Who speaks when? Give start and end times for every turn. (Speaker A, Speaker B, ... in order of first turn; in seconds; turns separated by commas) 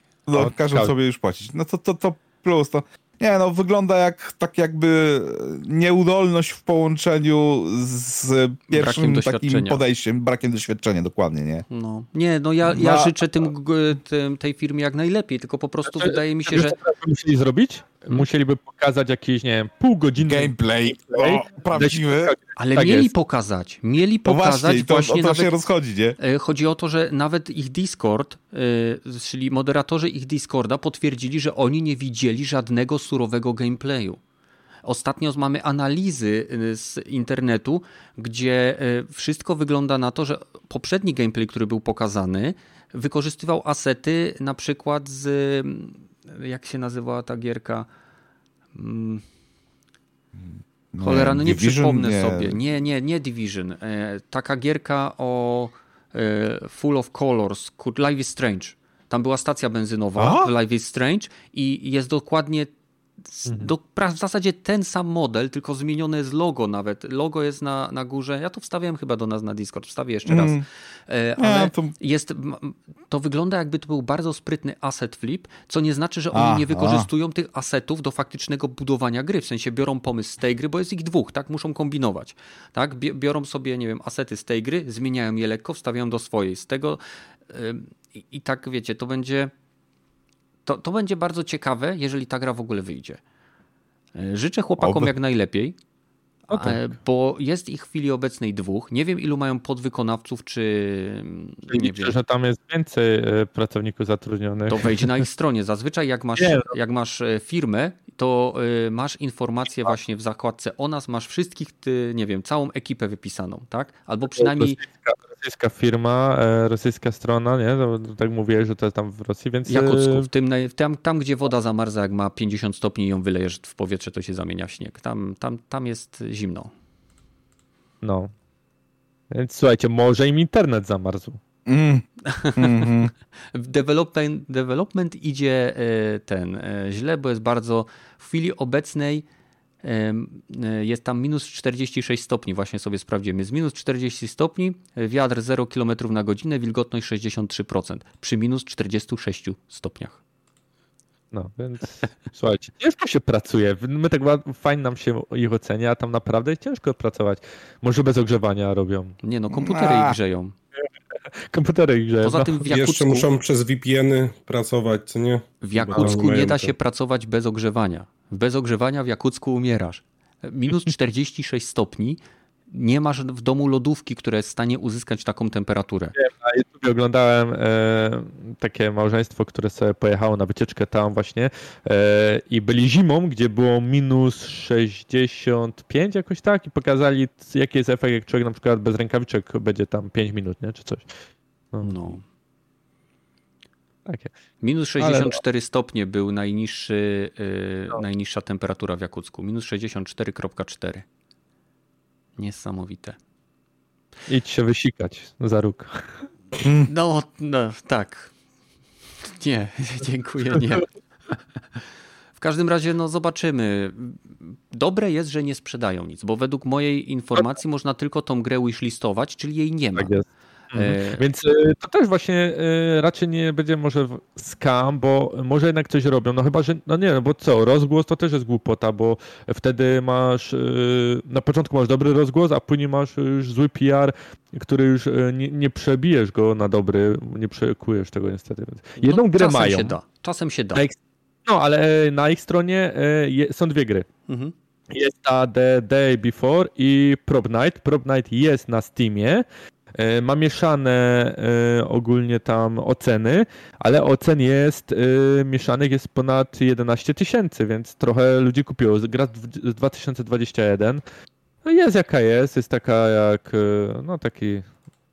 Speaker A: 0.3-11.7, Speaker B: 0.3-0.9, Speaker C: 8.7-9.8, Speaker C: 11.7-16.8, Speaker A: 12.7-13.1, Speaker B: 15.9-22.4, Speaker A: 20.2-23.1, Speaker C: 22.6-25.6, Speaker A: 24.2-26.2, Speaker C: 26.2-34.2, Speaker C: 34.8-47.9, Speaker C: 48.8-49.2, Speaker A: 50.4-52.6, Speaker C: 51.0-62.7, Speaker A: 60.2-60.5, Speaker C: 63.3-89.5, Speaker A: 70.3-70.7, Speaker A: 71.4-72.0, Speaker A: 76.3-77.1, Speaker C: 90.7-93.2, Speaker C: 94.2-95.8, Speaker A: 94.8-95.1, Speaker C: 96.5-102.2, Speaker B: 96.5-96.9, Speaker B: 101.7-105.1, Speaker C: 104.7-114.8, Speaker B: 106.4-106.7, Speaker B: 114.4-120.3, Speaker C: 119.7-126.7, Speaker B: 128.0-128.3, Speaker B: 129.3-131.4, Speaker A: 131.7-133.1, Speaker C: 132.2-139.3, Speaker C: 139.8-150.2, Speaker B: 151.3-159.2, Speaker C: 159.2-160.6, Speaker A: 159.5-160.2, Speaker B: 161.4-162.7, Speaker C: 162.2-163.3, Speaker D: 162.7-166.7, Speaker C: 165.6-176.2, Speaker B: 176.2-191.1, Speaker C: 191.8-192.2, Speaker C: 194.6-201.1, Speaker B: 195.0-195.4, Speaker C: 202.4-203.2, Speaker B: 204.3-206.3, Speaker A: 206.6-206.9, Speaker C: 206.8-208.3, Speaker C: 209.3-210.9, Speaker C: 212.4-220.1, Speaker B: 220.0-240.0, Speaker C: 220.7-221.2, Speaker C: 239.0-240.9, Speaker B: 240.8-244.1, Speaker C: 244.3-244.5, Speaker B: 244.9-261.0, Speaker B: 261.6-264.6